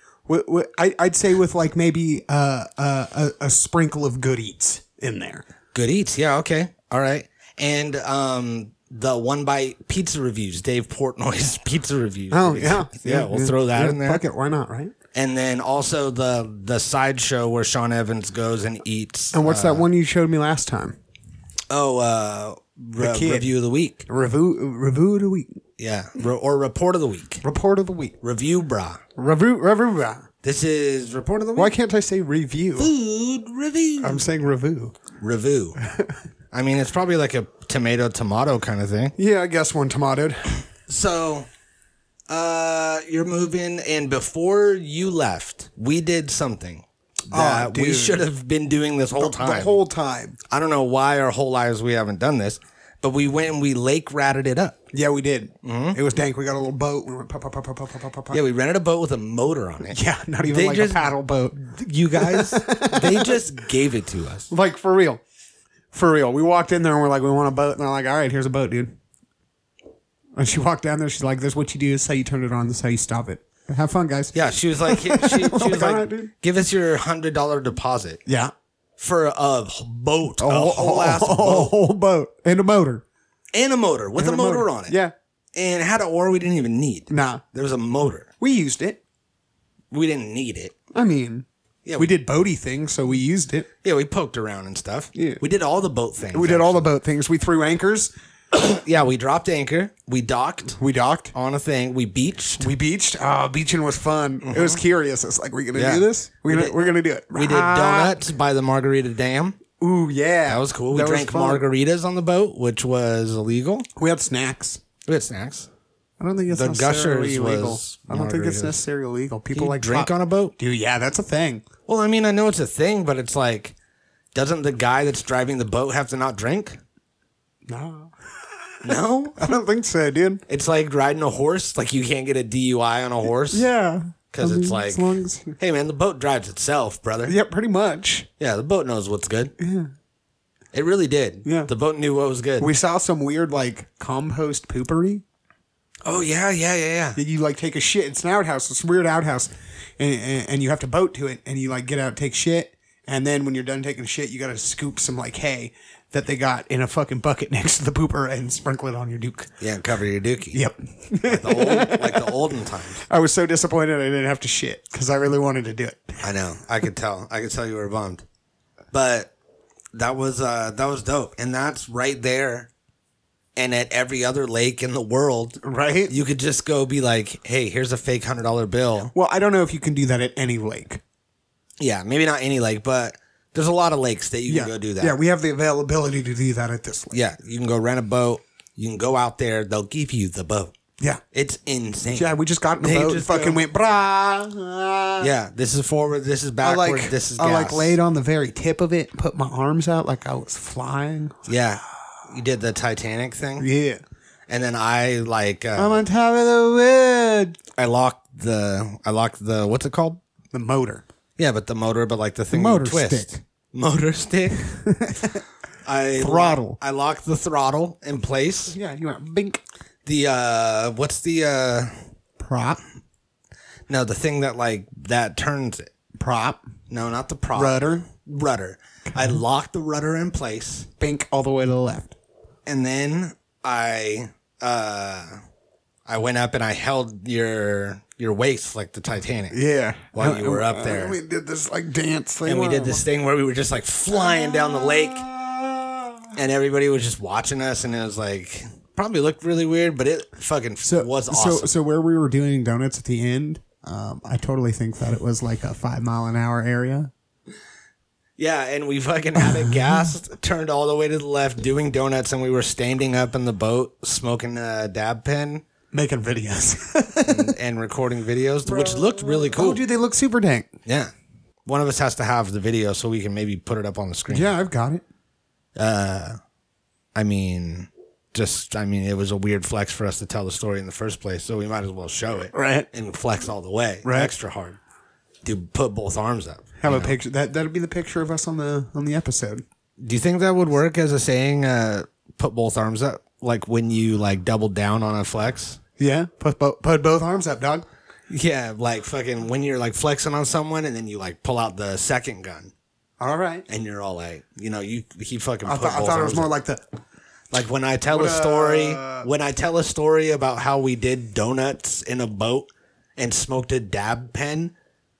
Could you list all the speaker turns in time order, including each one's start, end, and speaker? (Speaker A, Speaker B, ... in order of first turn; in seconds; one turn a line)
Speaker A: 0.3-5.4
Speaker B: 5.7-14.2
Speaker A: 12.3-14.9
Speaker B: 15.1-19.9
Speaker A: 19.3-21.0
Speaker B: 21.7-24.1
Speaker A: 23.0-23.5
Speaker A: 24.1-25.6
Speaker B: 25.8-27.4
Speaker A: 27.4-28.1
Speaker B: 28.2-29.0
Speaker A: 29.1-30.3
Speaker B: 30.4-31.7
Speaker A: 31.5-32.9
Speaker B: 32.8-34.2
Speaker A: 34.0-35.0
Speaker B: 35.2-35.8
Speaker B: 36.5-39.1
Speaker A: 39.1-40.5
Speaker B: 40.9-41.5
Speaker B: 42.3-49.8
Speaker A: 47.3-48.2
Speaker A: 49.2-50.4
Speaker B: 50.5-54.8
Speaker A: 54.9-58.4
Speaker B: 55.6-56.0
Speaker B: 58.3-64.5
Speaker A: 59.9-61.6
Speaker A: 62.1-63.4
Speaker A: 64.5-65.2
Speaker A: 65.9-69.0
Speaker A: 70.3-76.3
Speaker B: 74.3-78.2
Speaker A: 78.2-78.5
Speaker B: 79.0-81.7
Speaker A: 80.4-83.0
Speaker B: 83.5-85.0
Speaker A: 84.2-85.1
Speaker B: 85.5-88.3
Speaker A: 87.1-87.4
Speaker A: 88.4-89.0
Speaker B: 89.9-90.7
Speaker A: 90.9-91.5
Speaker B: 91.8-92.1
Speaker A: 92.0-93.7
Speaker B: 93.8-96.9
Speaker A: 95.1-95.4
Speaker A: 96.3-98.1
Speaker B: 98.5-100.8
Speaker A: 100.8-101.3
Speaker B: 101.3-102.7
Speaker A: 102.6-108.2
Speaker B: 104.4-104.8
Speaker B: 105.7-109.6
Speaker A: 109.8-111.6
Speaker B: 110.5-113.8
Speaker A: 114.0-114.8
Speaker B: 115.0-115.7
Speaker A: 116.2-121.6
Speaker B: 116.5-118.8
Speaker B: 119.5-120.5
Speaker B: 121.9-123.7
Speaker B: 124.3-126.8
Speaker A: 127.7-128.1
Speaker B: 128.8-129.5
Speaker A: 129.4-130.4
Speaker B: 130.5-133.7
Speaker A: 133.5-135.5
Speaker B: 134.3-137.3
Speaker A: 137.2-138.3
Speaker B: 138.4-139.5
Speaker A: 139.6-139.9
Speaker B: 140.7-142.7
Speaker A: 141.4-141.7
Speaker A: 142.6-145.2
Speaker B: 146.0-147.2
Speaker A: 147.1-159.5
Speaker B: 159.6-160.6
Speaker A: 160.5-162.4
Speaker B: 161.2-163.0
Speaker A: 163.0-166.2
Speaker B: 166.2-168.2
Speaker B: 168.9-169.3
Speaker B: 169.9-172.7
Speaker B: 173.6-179.1
Speaker A: 175.6-176.1
Speaker A: 179.1-181.0
Speaker B: 181.8-185.2
Speaker A: 184.5-187.2
Speaker B: 187.1-190.7
Speaker B: 191.3-193.6
Speaker A: 192.1-195.3
Speaker B: 195.2-198.0
Speaker A: 196.6-201.5
Speaker B: 201.4-203.7
Speaker A: 203.6-204.0
Speaker B: 204.5-206.0
Speaker A: 205.8-207.6
Speaker B: 207.8-210.2
Speaker A: 210.5-211.0
Speaker B: 211.4-214.7
Speaker A: 212.5-213.4
Speaker A: 214.7-215.4
Speaker B: 215.8-218.8
Speaker A: 216.2-216.8
Speaker A: 218.7-219.6
Speaker B: 220.0-222.1
Speaker A: 222.4-222.8
Speaker B: 223.9-225.9
Speaker A: 226.2-226.6
Speaker B: 226.9-230.9
Speaker A: 227.5-228.0
Speaker A: 229.1-229.4
Speaker A: 231.0-232.1
Speaker B: 232.7-235.4
Speaker B: 236.1-239.6
Speaker A: 239.5-243.0
Speaker B: 240.1-241.2
Speaker B: 242.4-245.3
Speaker A: 244.1-246.3
Speaker B: 246.3-251.7
Speaker A: 250.8-257.1
Speaker B: 258.4-265.6
Speaker A: 259.4-260.0
Speaker A: 265.9-267.5
Speaker B: 267.2-269.8
Speaker A: 268.6-270.7
Speaker B: 270.8-271.1
Speaker B: 271.6-274.5
Speaker A: 274.3-275.0
Speaker B: 275.8-276.4
Speaker B: 277.1-284.8
Speaker A: 282.5-282.9
Speaker A: 284.0-284.3
Speaker B: 285.4-287.2
Speaker A: 286.8-289.6
Speaker B: 290.0-295.8
Speaker A: 296.0-297.9
Speaker B: 298.3-302.7
Speaker A: 303.2-303.6
Speaker B: 303.7-306.5
Speaker A: 305.6-306.8
Speaker B: 307.5-314.7
Speaker A: 308.1-309.3